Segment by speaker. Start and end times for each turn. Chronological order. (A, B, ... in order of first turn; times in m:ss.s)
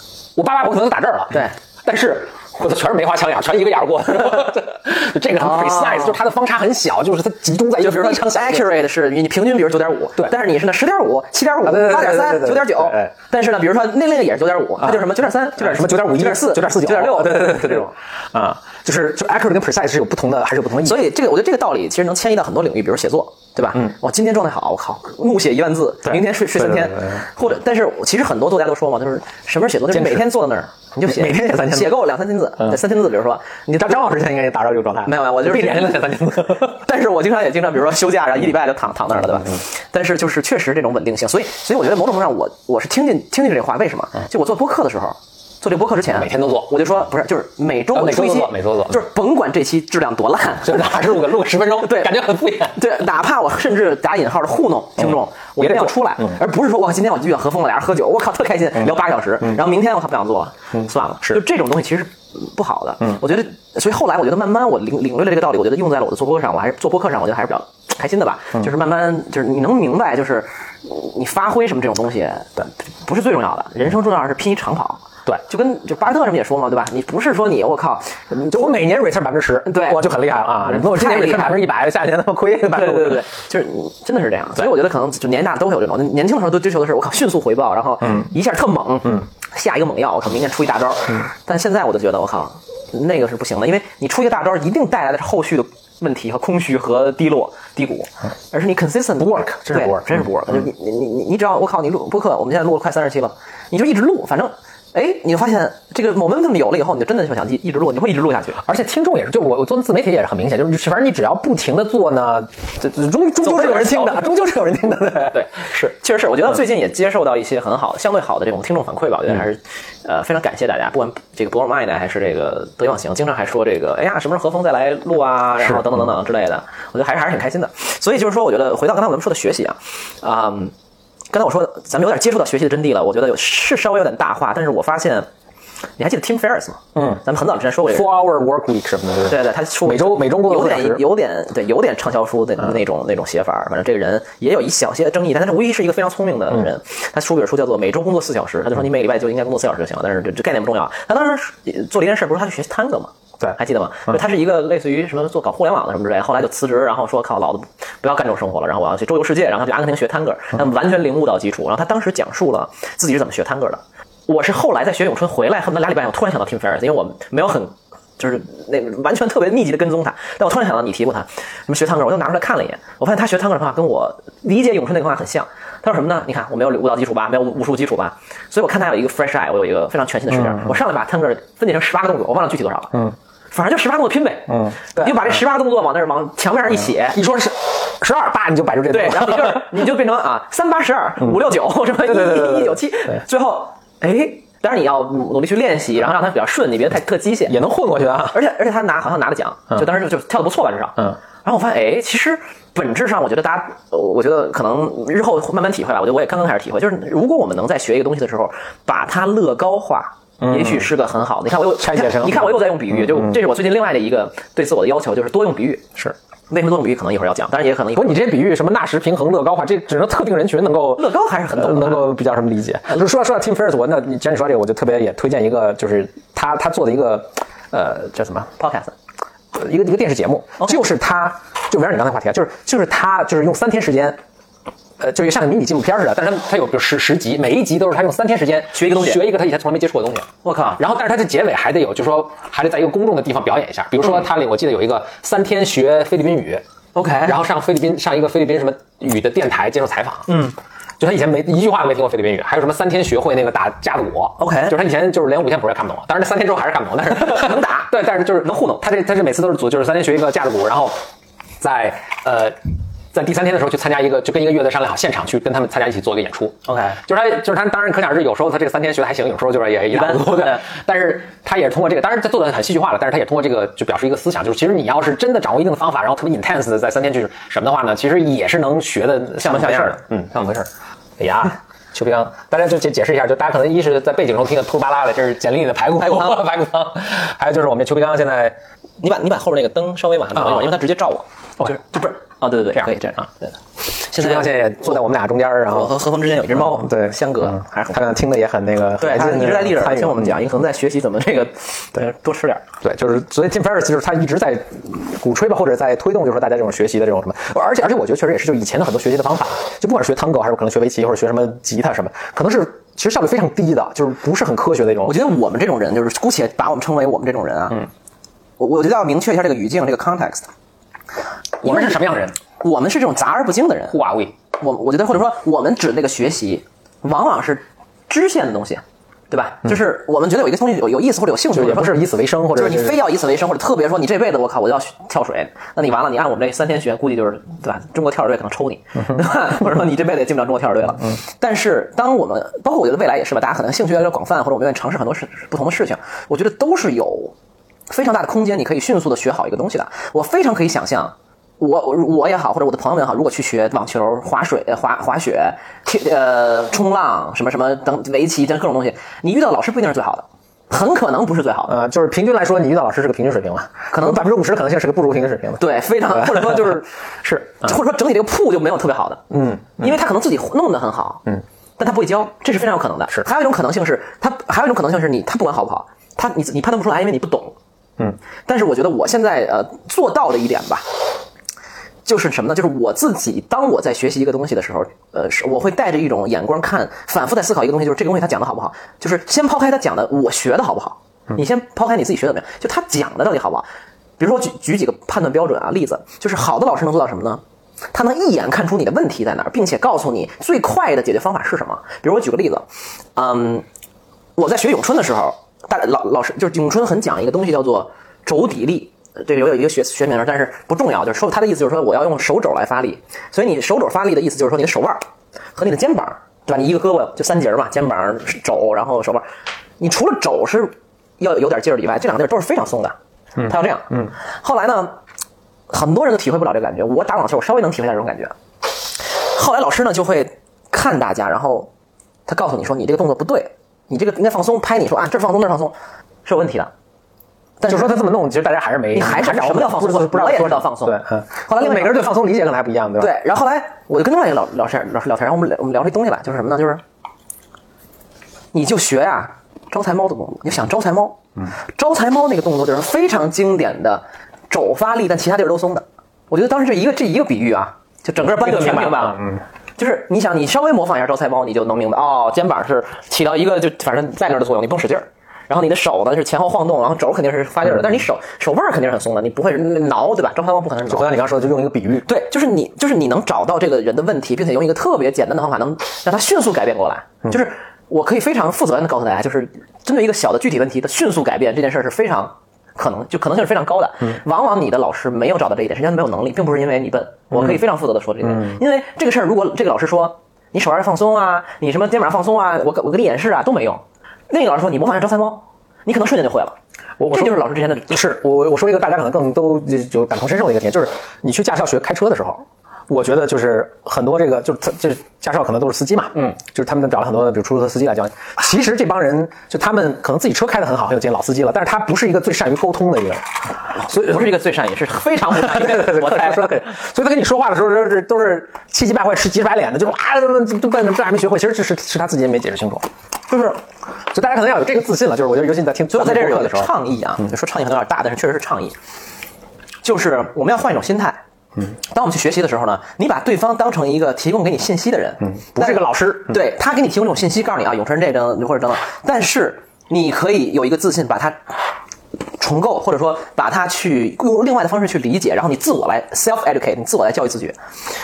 0:00.4-0:08.7 A
0:05.4-0:06.2 B
0:07.8-0:17.9 B
0:11.6-0:13.1 A
0:15.6-0:21.0 A
0:20.8-0:34.0 B
0:26.0-0:27.1 A
0:29.9-0:30.3 A
0:31.0-0:32.0 A
0:33.8-0:36.8 A
0:35.0-0:51.0 B
0:46.1-0:46.8 A
0:47.9-0:49.0 A
0:50.6-0:52.8 A
0:51.8-0:52.1 B
0:52.7-1:18.7 B
0:55.6-0:56.4 A
1:18.5-1:23.2 A
1:19.6-1:20.0 B
1:20.6-1:21.6 B
1:22.7-1:48.6 B
1:39.2-1:40.2 A
1:48.6-1:55.4 A
1:53.4-1:54.3 B
1:55.3-2:10.7 B
2:11.3-2:15.3 B
2:16.0-2:18.1 B
2:17.0-2:17.2 A
2:17.8-2:21.0 A
2:19.2-3:07.2 B
3:04.5-3:05.2 A
3:07.1-3:09.8 A
3:08.9-3:17.6 B
3:12.0-3:12.8 A
3:17.5-3:18.4 A
3:18.3-3:35.9 B
3:30.4-3:30.9 A
3:31.8-3:32.7 A
3:36.5-3:38.2 B
3:37.9-3:48.5 A
3:41.0-3:42.1 B
3:48.6-3:48.9 B
3:49.5-3:54.2 A
3:55.0-4:06.6 A
3:58.7-3:59.2 B
4:00.4-4:00.8 B
4:06.9-4:07.4 B
4:07.2-4:10.4 A
4:10.3-4:10.5 B
4:11.0-4:20.9 A
4:14.4-4:14.8 B
4:17.1-4:18.8 B
4:21.6-4:22.6 A
4:23.1-4:48.6 A
4:26.6-4:27.0 B
4:29.9-4:30.6 B
4:39.4-4:40.0 B
4:46.0-4:46.4 B
4:49.0-4:55.0 B
4:54.1-4:55.9 A
4:55.7-4:58.0 B
4:56.5-5:00.4 A
4:59.0-5:02.6 B
5:02.8-5:15.2 A
5:15.0-5:17.9 B
5:18.6-5:20.5 B
5:21.6-5:22.0 B
5:21.6-5:22.4 A
5:22.6-5:24.0 B
5:23.9-5:24.3 A
5:24.6-5:47.3 B
5:31.5-5:33.0 A
5:47.9-6:01.7 B
6:01.7-6:06.7 A
6:03.9-6:04.2 B
6:05.6-6:06.9 B
6:07.2-6:07.7 A
6:07.4-6:11.2 B
6:09.3-6:09.9 A
6:11.8-6:17.6 B
6:18.5-6:20.8 B
6:22.0-6:33.6 B
6:34.2-6:37.4 B
6:37.9-6:43.6 B
6:44.4-6:55.0 B
6:55.6-6:59.2 B
6:59.8-7:05.0 B
7:05.7-7:08.3 B
7:09.2-7:11.7 B
7:12.3-7:15.7 B
7:16.2-7:16.7 B
7:17.6-7:18.0 B
7:17.7-7:23.1 A
7:18.9-7:22.0 B
7:23.0-7:26.8 B
7:28.5-7:51.1 B
7:38.2-7:39.4 A
7:50.9-7:52.1 A
7:52.0-8:16.5 B
8:17.0-8:33.3 A
8:17.1-8:18.0 B
8:33.7-8:36.5 B
8:33.8-8:34.2 A
8:35.3-8:42.9 A
8:43.3-8:43.6 B
8:44.1-8:46.7 A
8:45.9-8:48.8 B
8:49.8-9:01.5 B
8:55.5-8:56.4 A
9:02.4-9:07.6 B